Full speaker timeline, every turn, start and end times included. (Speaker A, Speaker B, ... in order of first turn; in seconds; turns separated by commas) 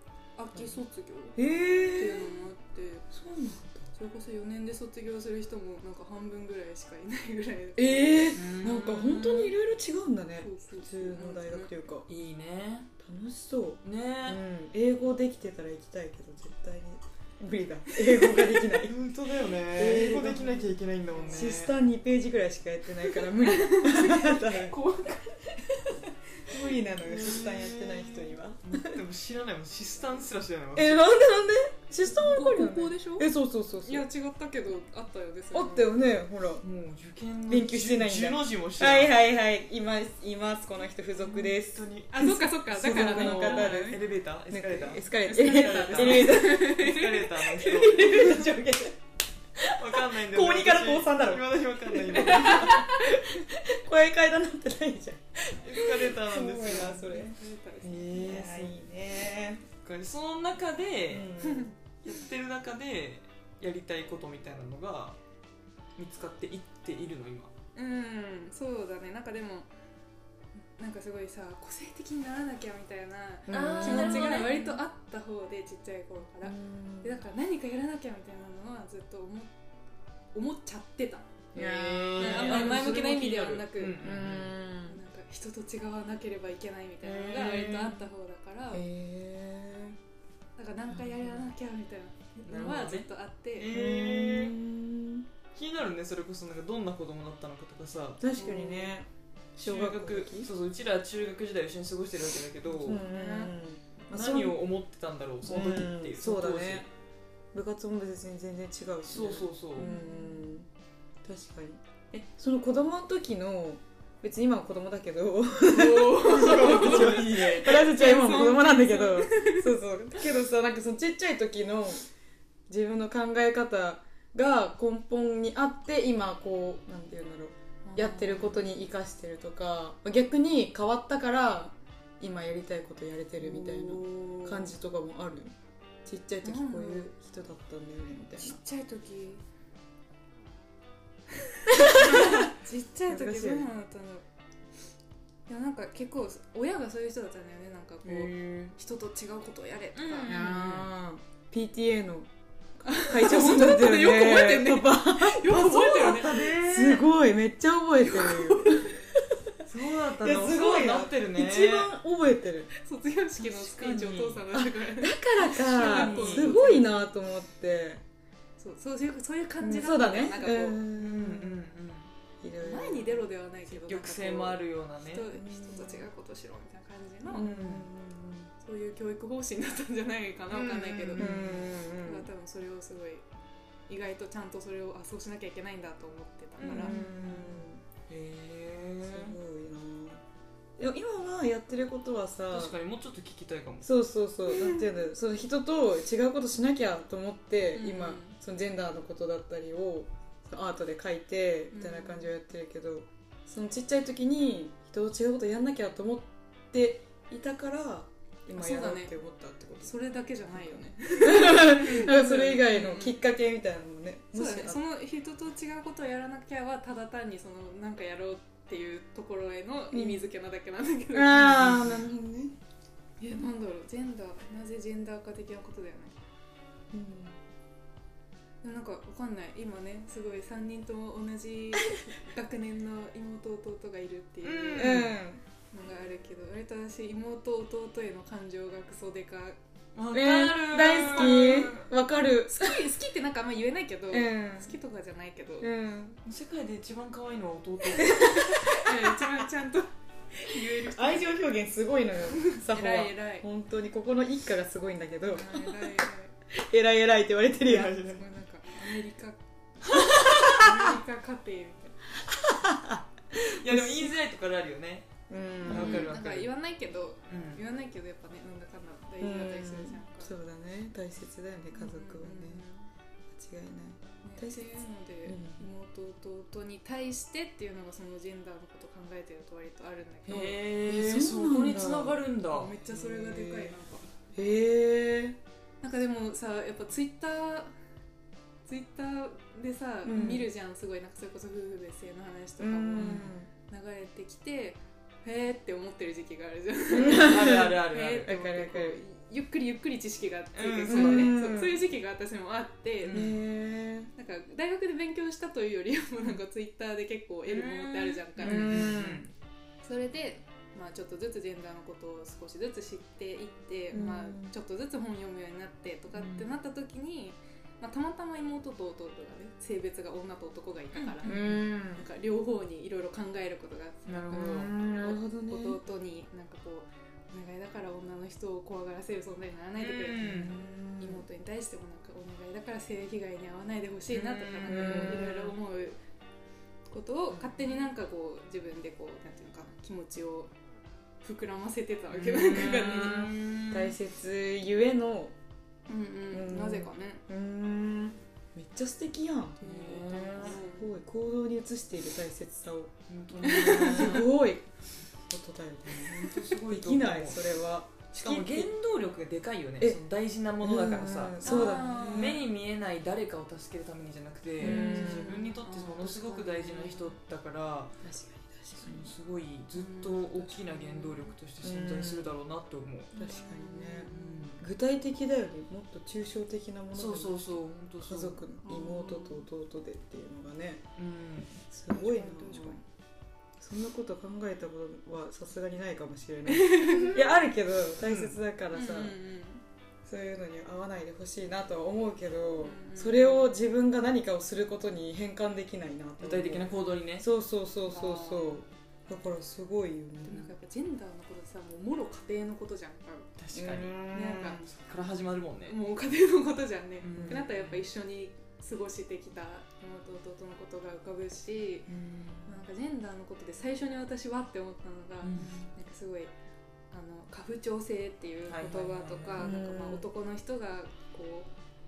Speaker A: 0.4-3.1, Speaker B: 1.4-2.4, Speaker B: 3.1-3.9, Speaker A: 3.9-8.3, Speaker B: 7.8-12.1, Speaker C: 8.3-9.5, Speaker A: 10.4-11.7, Speaker C: 12.1-12.9, Speaker B: 13.0-18.9, Speaker C: 13.8-14.4, Speaker A: 18.2-18.4, Speaker C: 18.8-21.7, Speaker B: 19.7-20.7, Speaker B: 21.3-24.8, Speaker A: 23.1-25.4, Speaker B: 25.5-29.0, Speaker C: 26.6-31.0, Speaker B: 30.8-34.1, Speaker A: 32.0-33.3, Speaker A: 33.8-35.9, Speaker B: 35.5-36.6, Speaker C: 36.6-39.2, Speaker B: 37.5-46.8, Speaker C: 41.2-42.1, Speaker A: 42.1-44.0, Speaker C: 42.8-48.3, Speaker A: 45.2-48.5, Speaker B: 47.6-49.0, Speaker B: 49.6-57.4, Speaker C: 49.6-53.0, Speaker A: 52.2-53.2, Speaker C: 55.5-57.2, Speaker A: 57.1-58.2, Speaker C: 57.8-58.7, Speaker B: 58.0-59.6, Speaker C: 59.8-61.3, Speaker B: 61.1-61.8, Speaker A: 61.4-61.8, Speaker C: 62.0-65.2, Speaker C: 66.0-67.5, Speaker A: 67.8-69.7, Speaker A: 70.8-79.5, Speaker B: 73.5-74.5, Speaker C: 73.5-74.8, Speaker B: 76.4-77.2, Speaker A: 80.3-81.5, Speaker B: 81.5-83.0, Speaker C: 81.5-84.5, Speaker A: 82.2-84.1, Speaker B: 84.0-85.0, Speaker A: 84.9-88.9, Speaker B: 87.0-88.1, Speaker B: 88.7-90.0, Speaker A: 90.6-93.7, Speaker C: 90.9-91.5, Speaker C: 92.4-94.5, Speaker B: 93.7-95.3, Speaker C: 95.5-98.2, Speaker B: 98.2-99.1, Speaker A: 98.4-99.0, Speaker C: 99.6-103.0, Speaker B: 99.6-100.5, Speaker A: 102.7-103.5, Speaker B: 102.8-104.6, Speaker C: 104.1-106.9, Speaker B: 105.5-106.9, Speaker B: 107.5-110.7, Speaker C: 109.0-109.9, Speaker A: 109.8-110.5, Speaker B: 111.2-122.0, Speaker C: 115.7-117.9, Speaker A: 115.7-119.7, Speaker B: 122.7-135.5, Speaker A: 127.8-128.6, Speaker C: 133.7-134.5, Speaker A: 133.9-134.4, Speaker B: 136.1-138.6, Speaker A: 136.4-137.1, Speaker A: 138.4-139.4, Speaker A: 141.6-144.2, Speaker B: 142.1-142.5, Speaker B: 143.1-143.7, Speaker A: 145.5-150.5, Speaker C: 148.0-148.8, Speaker C: 149.9-150.9, Speaker B: 150.3-152.3, Speaker B: 152.8-155.5, Speaker A: 152.8-156.6, Speaker C: 155.5-157.1, Speaker B: 156.6-159.5, Speaker A: 158.0-158.9, Speaker C: 159.6-161.9, Speaker B: 160.1-162.7, Speaker A: 162.8-167.1, Speaker B: 163.4-168.0, Speaker C: 163.8-164.4, Speaker C: 165.4-166.8, Speaker A: 168.6-170.8, Speaker B: 169.6-171.6, Speaker C: 170.9-172.1, Speaker B: 172.4-173.3, Speaker A: 172.6-177.5, Speaker C: 173.7-175.3, Speaker B: 175.3-176.1, Speaker B: 177.3-178.5, Speaker C: 177.3-177.9, Speaker A: 178.6-181.2, Speaker B: 180.6-182.3, Speaker C: 180.7-181.8, Speaker A: 182.0-183.2, Speaker A: 183.9-187.0, Speaker C: 186.6-189.4, Speaker B: 186.6-187.8, Speaker B: 189.0-190.2, Speaker B: 190.8-192.8, Speaker C: 192.5-193.9, Speaker B: 193.8-209.9, Speaker A: 194.5-194.8, Speaker A: 197.7-198.4, Speaker A: 201.7-202.3, Speaker A: 208.5-209.2, Speaker A: 209.8-213.2, Speaker B: 210.5-214.8, Speaker A: 214.3-221.8, Speaker B: 219.9-220.2, Speaker B: 221.1-222.5, Speaker C: 221.4-222.0, Speaker A: 223.2-226.1, Speaker B: 226.9-227.4, Speaker A: 228.6-235.1, Speaker C: 234.4-235.2, Speaker B: 234.8-235.4, Speaker A: 235.7-239.6, Speaker C: 240.0-241.9, Speaker B: 240.1-242.9, Speaker A: 241.2-241.6, Speaker A: 242.5-245.7, Speaker B: 244.1-244.8, Speaker B: 245.6-246.2, Speaker C: 246.2-248.1, Speaker A: 248.0-251.3, Speaker B: 248.0-249.2, Speaker B: 250.6-258.0, Speaker A: 252.3-253.5, Speaker A: 255.2-256.3, Speaker C: 257.6-258.2, Speaker A: 258.0-262.0, Speaker B: 260.0-261.0, Speaker B: 262.2-264.2, Speaker C: 263.5-265.1, Speaker B: 265.3-266.1, Speaker C: 265.6-266.5, Speaker A: 265.7-270.3, Speaker C: 267.3-267.6, Speaker B: 269.2-272.6, Speaker A: 271.8-272.9, Speaker B: 273.3-275.6, Speaker A: 274.2-280.6, Speaker C: 280.3-282.7, Speaker B: 280.3-282.3, Speaker A: 282.5-284.1, Speaker B: 282.9-283.8, Speaker B: 284.3-285.4, Speaker A: 285.8-287.7, Speaker A: 288.7-303.3, Speaker B: 290.0-290.5, Speaker B: 292.6-293.5, Speaker C: 293.0-293.3, Speaker B: 296.9-299.0, Speaker C: 297.0-298.3, Speaker C: 300.6-301.4, Speaker B: 300.9-301.8, Speaker C: 303.0-303.4, Speaker B: 303.1-304.1, Speaker A: 304.1-309.0, Speaker C: 307.5-309.3, Speaker B: 308.4-309.2, Speaker A: 309.8-336.0, Speaker B: 313.9-314.6, Speaker C: 316.1-316.5, Speaker C: 320.9-321.6, Speaker B: 321.2-322.1, Speaker C: 324.1-324.7, Speaker B: 324.3-325.8, Speaker C: 329.8-330.5, Speaker B: 330.2-331.2, Speaker C: 334.1-335.5, Speaker B: 334.7-335.5, Speaker A: 336.9-340.5, Speaker B: 337.3-337.6, Speaker A: 341.2-343.3, Speaker C: 342.1-344.0, Speaker B: 343.7-345.4, Speaker A: 345.9-347.2, Speaker B: 346.3-352.9, Speaker C: 349.6-350.6, Speaker A: 349.8-350.9, Speaker C: 353.1-354.3, Speaker A: 353.4-354.2, Speaker B: 353.5-354.7, Speaker B: 355.3-358.7, Speaker C: 356.1-357.6, Speaker C: 358.1-367.9, Speaker B: 360.6-362.4, Speaker A: 361.4-362.4, Speaker A: 364.6-367.2, Speaker B: 364.6-365.4, Speaker B: 368.0-369.1, Speaker C: 368.8-373.1, Speaker A: 369.7-371.3, Speaker B: 371.6-372.3, Speaker A: 373.1-374.5, Speaker B: 373.2-380.8, Speaker C: 374.0-374.7, Speaker C: 376.9-378.6, Speaker A: 378.6-379.4, Speaker C: 381.0-381.6, Speaker B: 381.7-382.8, Speaker A: 381.9-382.8, Speaker B: 383.6-389.1, Speaker A: 386.5-387.2, Speaker C: 386.9-387.3, Speaker C: 388.0-388.4, Speaker A: 388.7-389.6, Speaker B: 390.1-400.5, Speaker A: 392.6-393.5, Speaker C: 396.2-397.3, Speaker A: 397.9-398.6, Speaker A: 400.2-403.3, Speaker C: 403.4-405.8, Speaker B: 403.5-404.4, Speaker A: 404.1-404.6, Speaker A: 405.7-411.9, Speaker C: 407.0-407.9, Speaker B: 407.1-407.5, Speaker B: 411.9-412.6, Speaker A: 412.4-416.3, Speaker C: 415.2-415.7, Speaker A: 416.9-421.5, Speaker C: 418.5-419.5, Speaker B: 419.4-420.1